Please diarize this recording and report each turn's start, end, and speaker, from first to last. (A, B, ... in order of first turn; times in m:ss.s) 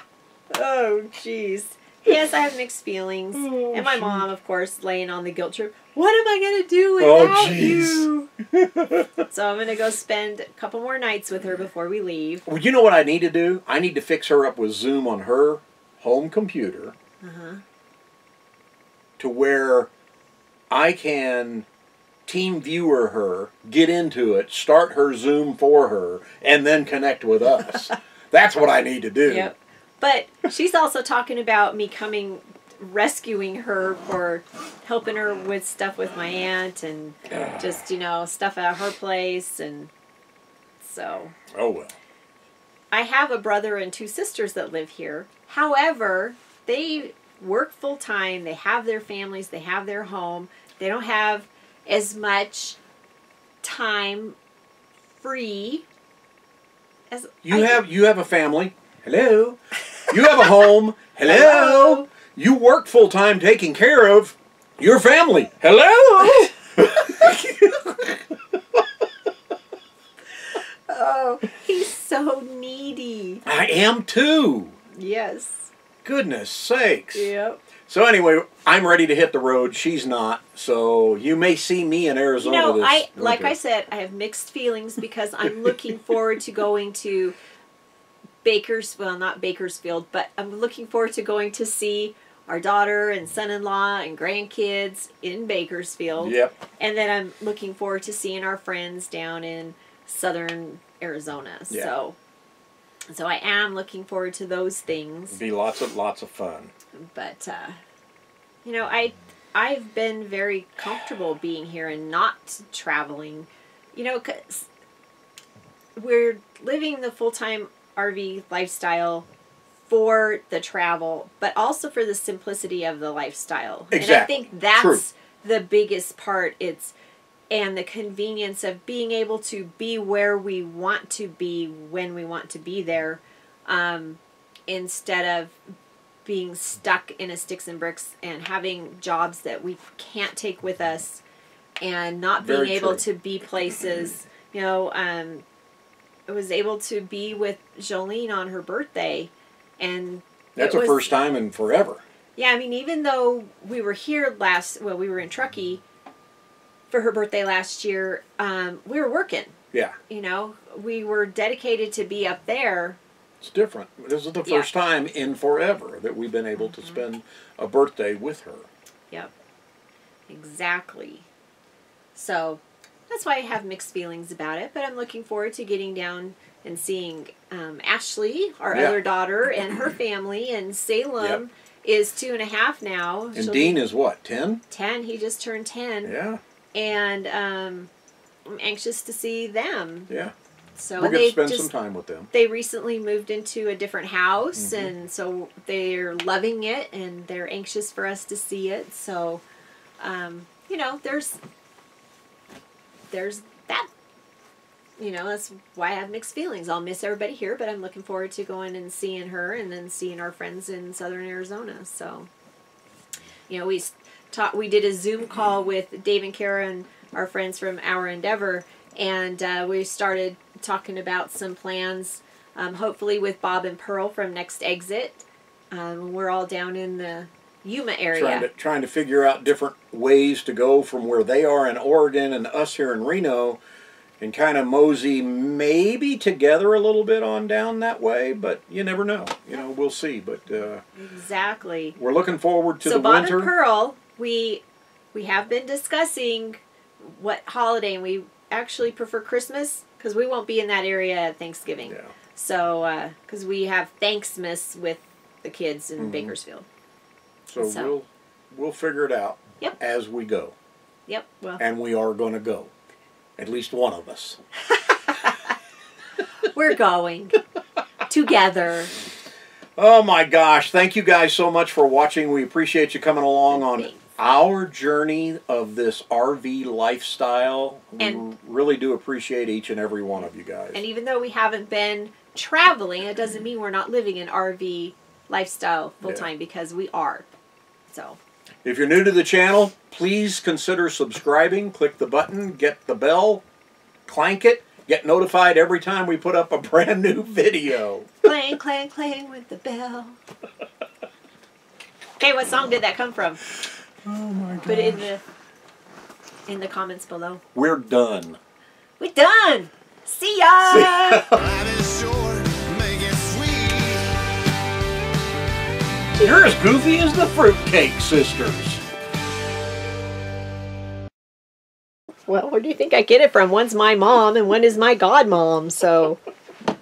0:00.5-0:08.3 A
0:03.4-0:04.3 B
0:07.0-0:09.2 B
0:09.3-0:12.5 A
0:12.5-0:17.0 B
0:17.2-0:17.6 A
0:19.2-0:19.9 B
0:20.7-0:21.7 B
0:22.3-0:29.5 B
0:29.3-0:39.9 A
0:40.8-0:41.4 A
0:41.5-0:42.0 B
0:42.9-0:52.8 A
0:53.6-0:54.4 A
0:55.2-0:55.8 A
0:57.1-0:57.8 A
0:57.4-1:08.2 B
1:01.2-1:02.1 A
1:10.6-1:13.4 A
1:13.4-1:14.8 B
1:15.0-1:15.7 A
1:16.0-1:17.3 B
1:17.2-1:17.6 A
1:17.9-1:23.6 B
1:22.4-1:27.4 A
1:28.4-1:42.2 A
1:36.2-1:36.6 B
1:43.1-1:45.4 A
1:45.3-1:46.7 B
1:47.0-1:47.8 A
1:48.6-1:54.7 A
1:56.0-1:59.3 A
1:59.9-2:06.9 A
2:03.9-2:05.0 B
2:07.5-2:15.6 A
2:16.2-2:21.2 A
2:21.8-2:25.4 A
2:22.4-2:23.0 B
2:26.3-2:31.1 A
2:30.6-2:32.0 B
2:32.4-2:35.8 A
2:36.9-2:39.6 A
2:40.1-2:43.0 A
2:43.4-2:48.7 B
2:46.7-2:47.0 A
2:50.3-2:51.3 A
2:52.2-3:03.8 A
2:58.7-2:59.0 B
3:03.4-3:04.6 B
3:04.7-3:06.2 A
3:06.0-3:06.4 B
3:06.7-3:07.9 A
3:08.4-3:10.1 A
3:10.1-3:10.3 B
3:10.8-3:11.7 A
3:11.0-3:12.3 B
3:12.3-3:19.4 A
3:14.6-3:14.9 B
3:20.0-3:21.4 A
3:23.1-3:23.9 A
3:25.0-3:32.3 A
3:33.5-3:48.5 A
3:48.1-3:53.6 B
3:54.2-4:00.8 B
4:01.0-4:02.0 A
4:02.0-4:03.5 B
4:02.8-4:04.6 A
4:05.1-4:16.7 A
4:11.9-4:12.1 B
4:16.0-4:16.3 B
4:17.5-4:20.6 B
4:17.6-4:17.9 A
4:21.1-4:21.6 A
4:21.6-4:22.7 B
4:23.4-4:24.4 B
4:26.4-4:27.4 A
4:28.1-4:28.9 A
4:29.8-4:40.8 B
4:33.5-4:34.1 A
4:38.0-4:38.2 A
4:40.7-4:47.3 A
4:46.0-4:46.3 B
4:47.9-4:48.2 A
4:48.6-4:53.4 B
4:54.1-4:58.1 B
4:58.2-5:00.2 A
5:02.2-5:03.4 A
5:04.0-5:05.0 B
5:04.6-5:05.2 A
5:06.5-5:07.4 A
5:07.6-5:08.4 B
5:09.0-5:11.2 A
5:10.6-5:11.4 B
5:11.3-5:14.1 C
5:16.2-5:18.8 B
5:22.3-5:26.2 A